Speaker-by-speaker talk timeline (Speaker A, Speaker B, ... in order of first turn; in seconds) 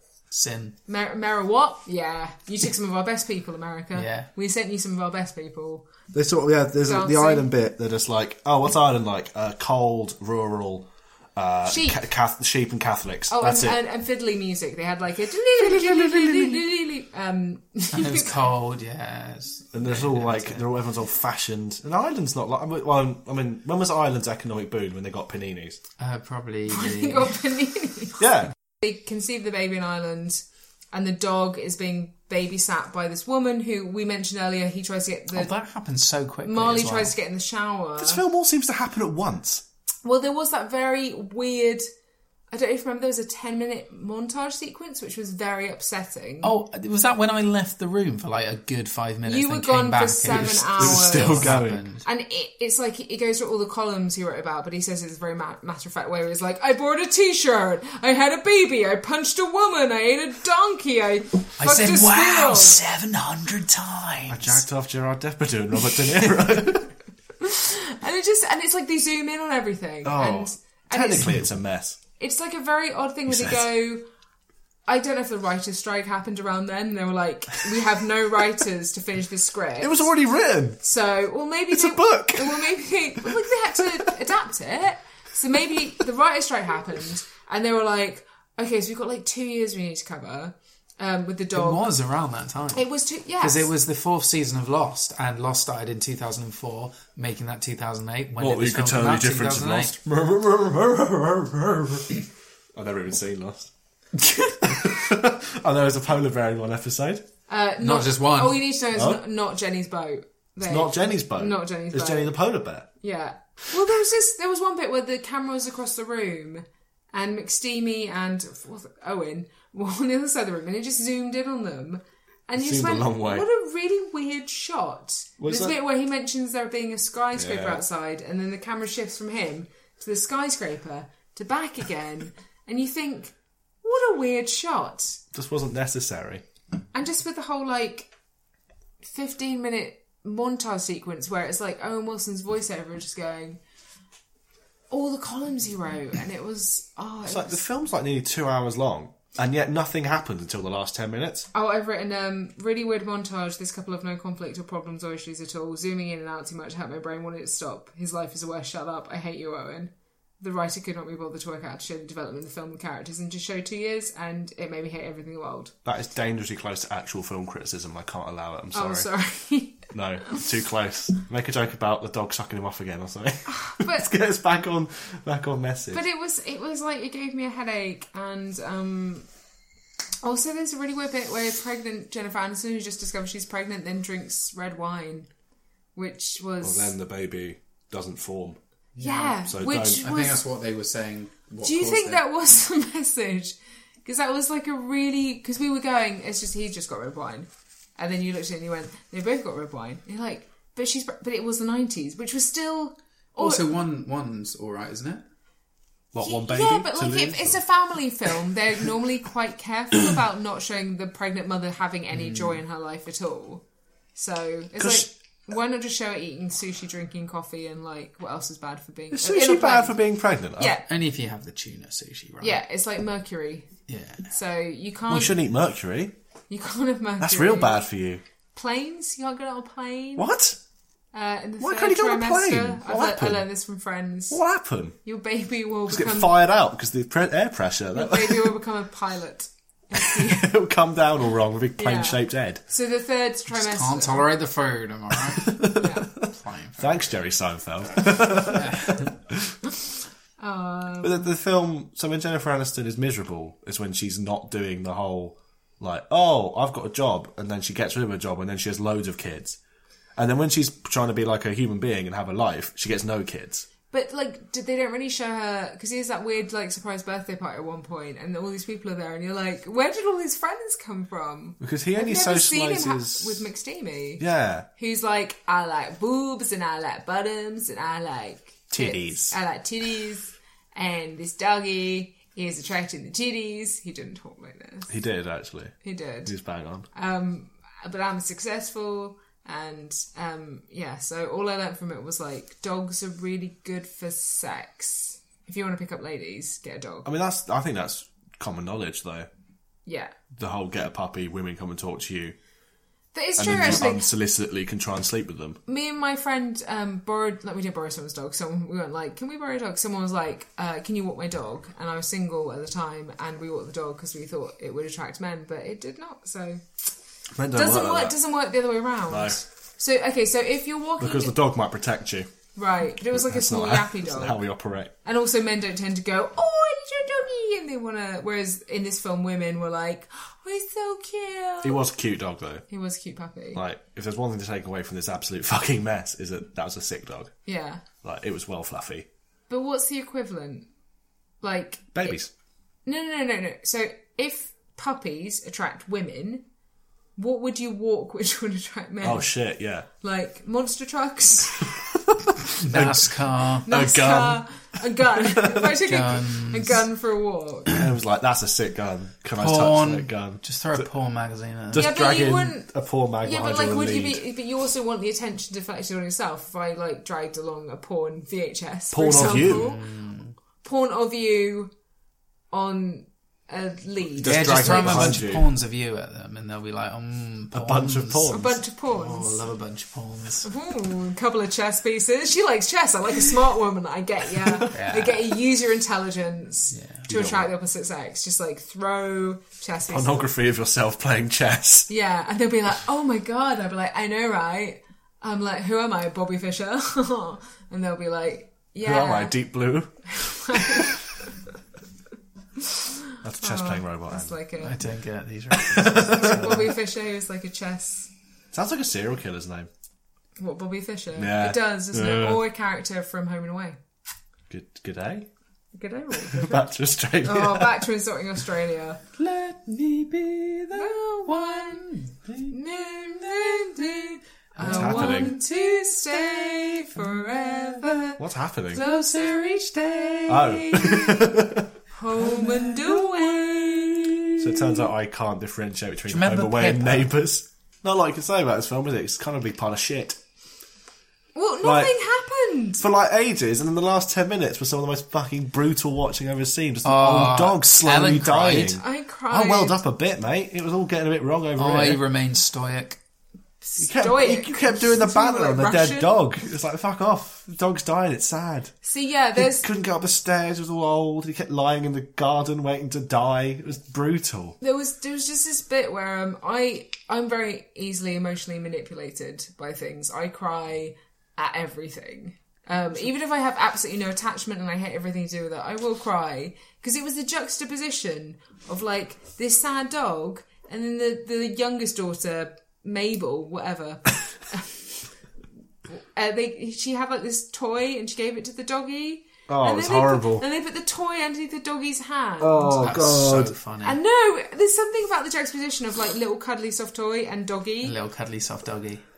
Speaker A: 0.3-0.8, 4.0-4.3, 17.9-20.6, 26.0-27.4, 35.3-37.1, 46.4-52.0, 61.6-64.6, 91.5-92.9, 93.4-99.9, 104.2-104.7, 107.8-108.7, 189.0-192.2, 203.4-205.2, 212.1-212.6, 220.9-222.6, 223.9-224.3, 243.5-245.6, 246.3-247.0, 248.5-249.1, 352.6-353.7, 355.9-356.9, 359.4-361.9, 369.1-370.4, 374.2-378.4, 378.9-380.5, 384.7-385.3, 386.7-387.1, 404.6-406.7, 419.2-422.5, 424.6-427.8, 428.7-430.5, 432.2-434.7, 436.1-437.1, 446.8-448.8, 451.6-453.0, 492.8-494.0, 497.8-499.0
Speaker B: 0.9-5.9, 6.8-7.5, 11.7-12.0, 13.3-18.4, 26.7-28.3, 28.8-35.5, 36.4-38.2, 40.0-41.9, 42.5-46.5, 49.3-62.8, 67.4-71.3, 72.2-74.1, 74.9-80.1, 80.8-91.9, 92.7-93.7, 107.5-112.4, 113.0-135.2, 136.9-138.1, 139.0-143.6, 144.9-147.6, 151.5-165.7, 168.7-170.5, 173.5-174.1, 175.9-179.3, 180.2-185.3, 186.0-186.9, 189.0-190.4, 191.6-203.7, 206.2-213.6, 214.2-220.0, 220.6-220.9, 222.4-223.7, 224.3-225.3, 226.5-227.8, 228.6-230.3, 231.1-234.4, 235.0-236.3, 237.9-240.5, 241.8-244.3, 245.8-246.1, 250.4-251.3, 263.9-274.2, 274.8-284.9, 285.8-286.3, 286.9-297.1, 299.9-300.1, 303.1-304.1, 305.7-316.6, 317.5-321.4, 322.6-324.4, 325.0-331.8, 332.7-333.6, 337.5-337.8, 339.5-340.7, 341.4-342.2, 342.9-346.4, 347.2-349.3, 350.0-351.7, 353.7-357.8, 361.7-362.7, 363.2-369.8, 370.6-371.7, 372.5-375.2, 378.3-379.4, 380.4-390.3, 391.9-399.4, 400.1-400.9, 402.6-404.8, 405.8-408.1, 410.4-413.8, 415.8-416.7, 417.2-419.0, 420.7-421.9, 422.5-428.2, 428.7-434.3, 441.4-442.8, 448.8-449.8, 453.6-456.2, 458.8-459.7, 464.6-484.7, 485.9-493.0, 493.8-498.0
Speaker C: 6.1-13.8, 15.6-16.6, 19.7-25.8, 28.2-28.5, 38.0-39.6, 50.3-51.9, 64.3-67.0, 70.0-72.0, 73.3-73.6, 79.8-80.8, 81.7-83.8, 98.4-102.2, 102.7-103.7, 104.6-107.2, 108.9-109.2, 110.6-112.9, 122.6-123.5, 125.4-125.8, 127.3-127.8, 135.3-136.4, 147.3-151.5, 165.8-169.1, 169.9-176.0, 186.6-188.6, 189.5-190.1, 206.1-207.6, 214.8-215.1, 219.1-220.7, 225.1-226.1, 227.2-228.2, 230.2-230.6, 231.6-233.5, 234.3-235.0, 235.9-238.5, 240.1-242.6, 245.2-249.6, 251.0-259.6, 260.2-263.7, 271.6-273.5, 274.2-274.7, 278.7-279.4, 284.9-286.9, 297.1-299.3, 300.4-302.4, 303.4-305.6, 317.3-318.1, 319.1-319.4, 321.0-322.3, 323.1-324.9, 331.6-332.6, 333.6-337.3, 338.0-339.1, 341.9-342.3, 349.0-349.9, 351.7-354.4, 355.2-355.7, 357.7-360.9, 361.7-364.2, 368.9-369.7, 374.2-375.5, 377.5-378.6, 387.1-387.5, 389.9-391.9, 398.8-401.0, 403.2-404.4, 405.7-406.7, 408.5-409.7, 411.2-412.4, 414.5-415.3, 416.3-417.8, 424.6-425.3, 428.2-428.8, 430.3-431.7, 434.4-440.2, 441.6-441.9, 442.8-452.0, 453.8-458.7, 459.4-464.6, 489.5-490.4, 492.4-493.6